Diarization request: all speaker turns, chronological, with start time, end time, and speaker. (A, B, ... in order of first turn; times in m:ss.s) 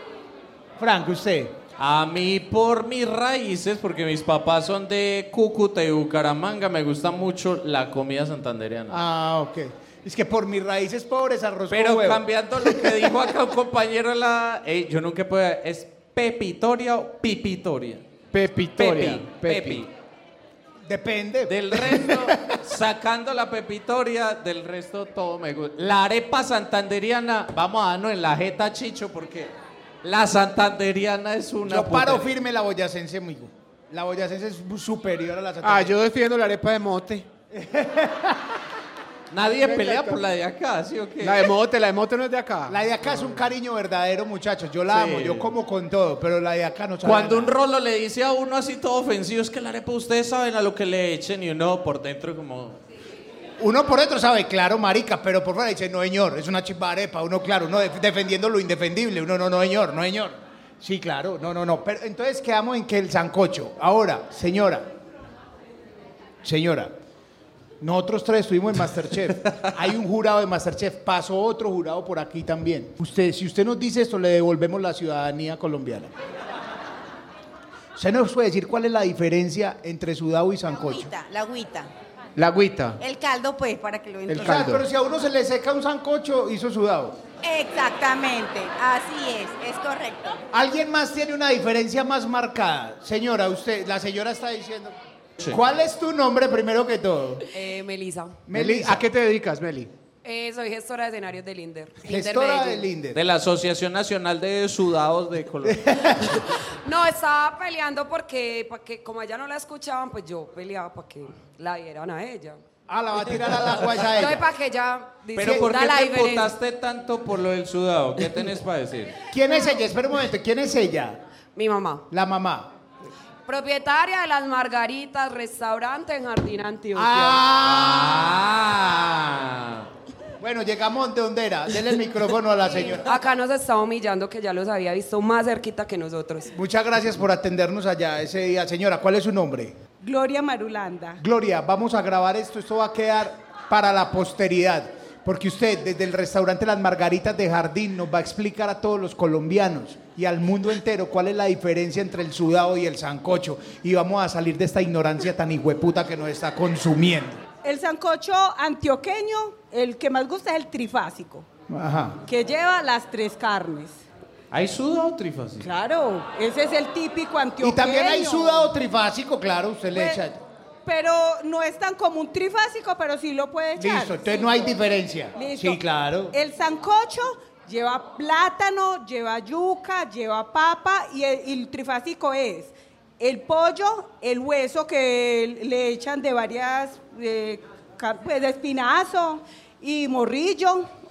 0:00.8-0:01.6 A
0:01.8-0:09.0 B
0:08.9-0:13.1 A
0:11.7-0:18.0 B
0:18.3-0:19.8 C
0:18.8-0:19.9 B
0:20.8-0:22.6 A
0:21.5-0:29.5 B
0:30.0-0:32.3 B
0:31.6-0:36.0 A
0:35.6-0:37.3 C
0:37.5-0:38.6 A
0:39.3-0:41.5 B
0:39.6-0:40.2 C
0:41.2-0:43.4 C
0:42.7-0:47.5 A
0:44.9-0:45.5 B
0:47.0-0:52.8 B
0:53.6-1:04.9 A
1:06.4-1:06.9 A
1:07.8-1:16.1 A
1:18.0-1:21.1 A
1:20.8-1:21.9 D
1:22.4-1:23.0 C
1:23.0-1:24.6 D
1:24.3-1:24.8 C
1:24.3-1:27.2 A
1:27.4-1:30.4 D
1:30.5-1:37.4 A
1:37.5-1:38.4 E
1:38.4-1:39.1 A
1:38.5-1:39.9 C
1:40.2-1:42.8 E
1:42.0-1:43.2 A
1:43.1-1:45.9 B
1:45.7-1:46.4 A
1:46.8-1:52.6 E
1:52.9-1:54.4 A
1:54.1-1:56.5 E
1:55.3-1:59.2 B
1:59.3-2:01.2 A
2:01.6-2:02.0 E
2:02.1-2:02.7 A
2:03.4-2:07.4 E
2:06.9-2:08.4 A
2:07.6-2:09.9 B
2:10.4-2:13.1 A
2:12.8-2:16.5 E
2:16.5-2:19.8 A
2:20.0-2:21.2 F
2:21.2-2:37.4 A
2:37.6-2:41.4 F
2:41.7-2:42.2 A
2:42.2-2:44.0 F
2:44.5-2:45.7 B
2:45.6-2:48.7 F
2:47.6-2:50.4 A
2:49.9-2:50.2 F
2:50.8-2:54.7 F
2:53.8-2:56.3 A
2:55.4-2:55.8 F
2:56.3-3:10.9 F